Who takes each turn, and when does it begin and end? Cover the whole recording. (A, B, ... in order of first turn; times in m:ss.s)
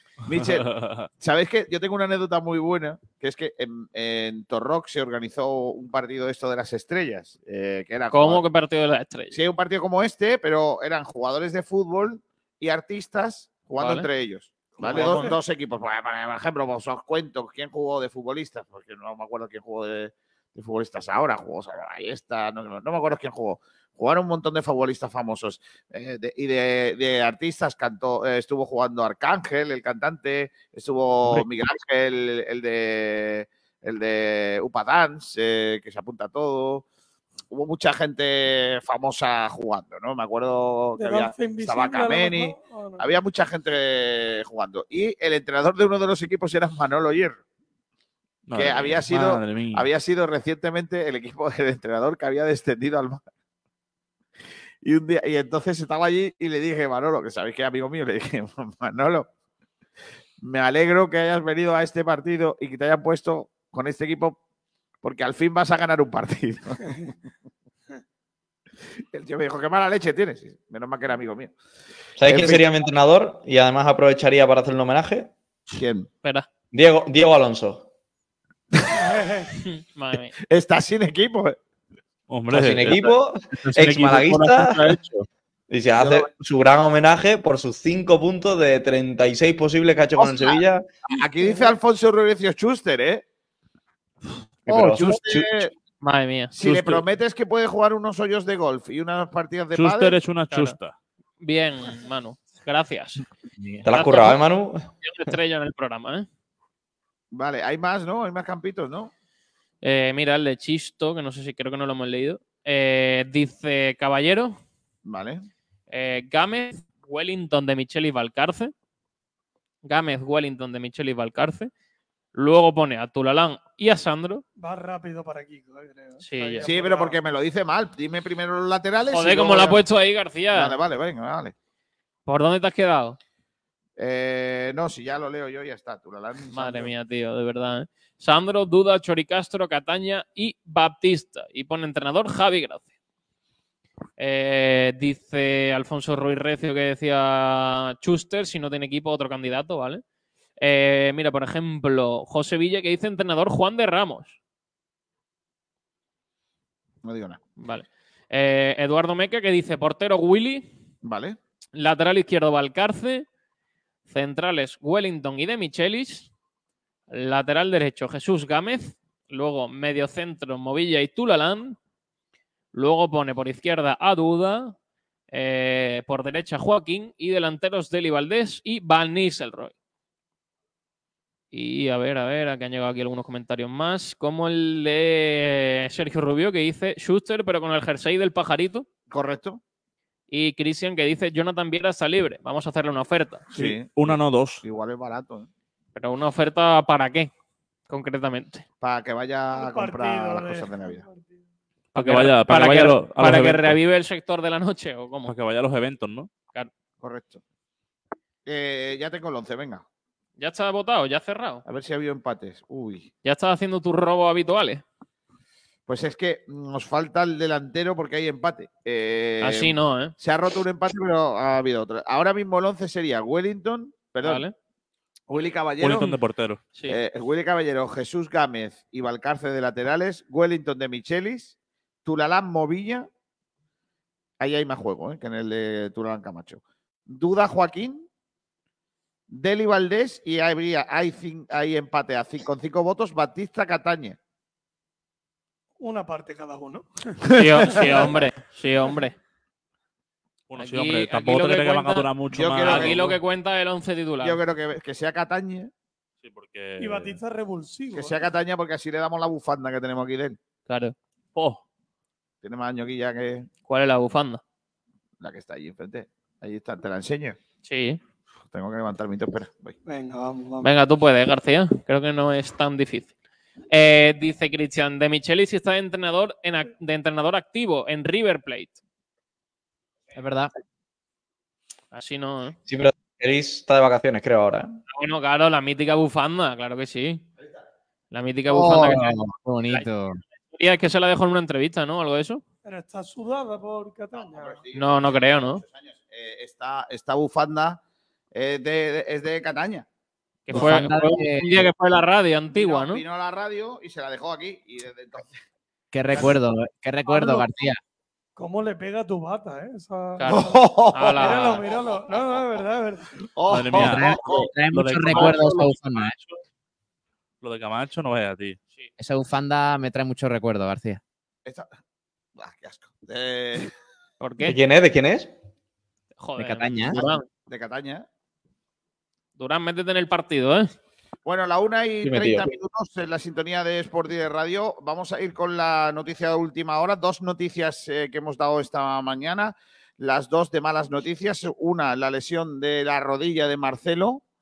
0:00.3-0:00.7 A
0:00.3-0:01.1 B
0:01.2-0:08.4 A
0:08.1-0:09.4 C
0:09.3-0:36.8 A
0:13.8-0:14.1 C
0:14.8-0:15.4 D
0:14.8-0:15.4 C
0:37.5-0:47.4 A
0:41.0-0:43.2 D
0:48.5-0:49.9 B
0:48.5-0:53.2 A
0:54.8-0:59.3 A
1:00.4-1:04.4 A
1:05.0-1:07.0 A
1:09.1-1:11.5 A
1:12.2-1:15.3 E
1:12.2-1:12.7 A
1:15.8-1:16.1 A
1:16.7-1:17.9 E
1:18.9-1:19.5 D
1:19.6-1:20.3 C
1:20.5-1:21.6 A
1:22.3-1:25.3 B
1:22.5-1:25.0 E
1:25.7-1:30.8 E
1:30.2-1:33.2 A
1:34.7-1:35.5 E
1:34.7-1:35.7 A
1:36.0-1:36.6 C
1:36.6-1:40.2 A
1:36.6-1:37.0 B
1:39.7-1:41.0 B
1:40.5-1:40.8 C
1:41.4-1:43.2 C
1:43.8-1:44.9 E
1:43.9-1:44.4 C
1:45.0-1:46.3 C
1:47.3-1:49.1 A
1:49.8-1:54.6 C
1:55.0-1:55.5 A
1:55.9-1:58.7 C
1:59.8-2:01.7 C
2:02.3-2:04.4 C
2:04.6-2:07.2 D
2:06.2-2:06.7 C
2:06.6-2:09.8 A
2:09.1-2:10.8 C
2:10.5-2:11.5 A
2:12.3-2:13.2 C
2:14.0-2:16.9 A
2:16.5-2:22.9 C
2:24.2-2:30.0 C
2:30.6-2:34.4 C
2:37.0-2:37.4 A
2:37.6-2:40.7 C
2:41.0-2:41.4 A
2:41.8-2:43.3 C
2:44.1-2:46.3 C
2:47.1-2:51.8 C
2:52.7-2:54.8 C
2:55.3-2:59.7 C
3:01.5-3:08.9 C
3:09.1-3:09.6 A
3:10.3-3:13.4 C
3:13.5-3:15.5 A
3:13.5-3:14.6 B
3:16.0-3:17.3 C
3:17.9-3:18.6 C
3:18.8-3:21.0 A
3:19.5-3:21.4 D
3:22.0-3:23.8 B
3:22.0-3:25.3 C
3:25.3-3:26.3 B
3:27.0-3:27.4 A
3:28.5-3:29.8 A
3:30.4-3:31.6 C
3:31.7-3:33.1 A
3:33.2-3:34.8 C
3:35.9-3:44.5 A
3:39.4-3:40.1 C
3:44.2-3:44.5 C
3:45.3-3:46.1 A
3:45.8-3:46.6 B
3:46.8-3:53.1 A
3:54.4-3:58.1 A
3:59.3-4:04.2 A
4:05.8-4:08.2 D
4:07.4-4:09.2 C
4:07.4-4:08.2 A
4:10.5-4:13.2 B
4:10.6-4:14.4 C
4:12.3-4:13.0 A
4:14.2-4:15.7 A
4:16.2-4:17.2 B
4:16.8-4:18.3 D
4:17.9-4:20.4 A
4:20.7-4:21.0 C
4:21.4-4:21.6 B
4:22.4-4:23.5 A
4:23.7-4:24.4 C
4:25.2-4:27.4 A
4:27.6-4:28.0 C
4:28.5-4:29.8 A
4:29.9-4:30.7 D
4:30.6-4:33.1 C
4:33.7-4:38.8 C
4:40.2-4:40.5 F
4:41.9-4:42.6 C
4:42.7-4:44.8 E
4:44.9-4:47.2 C
4:48.1-4:49.9 C
4:48.5-4:50.2 F
4:50.5-4:52.4 C
4:52.6-4:54.6 D
4:54.2-4:57.8 A
4:54.7-4:55.6 C
4:58.3-4:59.9 A
5:00.5-5:03.0 C
5:00.5-5:01.6 F
5:02.5-5:05.4 A
5:05.9-5:07.8 F
5:07.1-5:07.5 D
5:08.4-5:10.6 D
5:10.2-5:11.6 C
5:10.3-5:12.6 A
5:11.1-5:13.1 D
5:13.4-5:14.5 A
5:13.5-5:16.4 B
5:13.7-5:16.2 F
5:17.4-5:18.6 B
5:19.0-5:21.0 F
5:22.4-5:23.7 A
5:24.2-5:24.6 C
5:24.4-5:25.3 E
5:26.2-5:27.3 C
5:26.4-5:27.0 F
5:27.0-5:28.1 A
5:29.4-5:30.7 C
5:31.2-5:44.2 A
5:32.0-5:32.5 E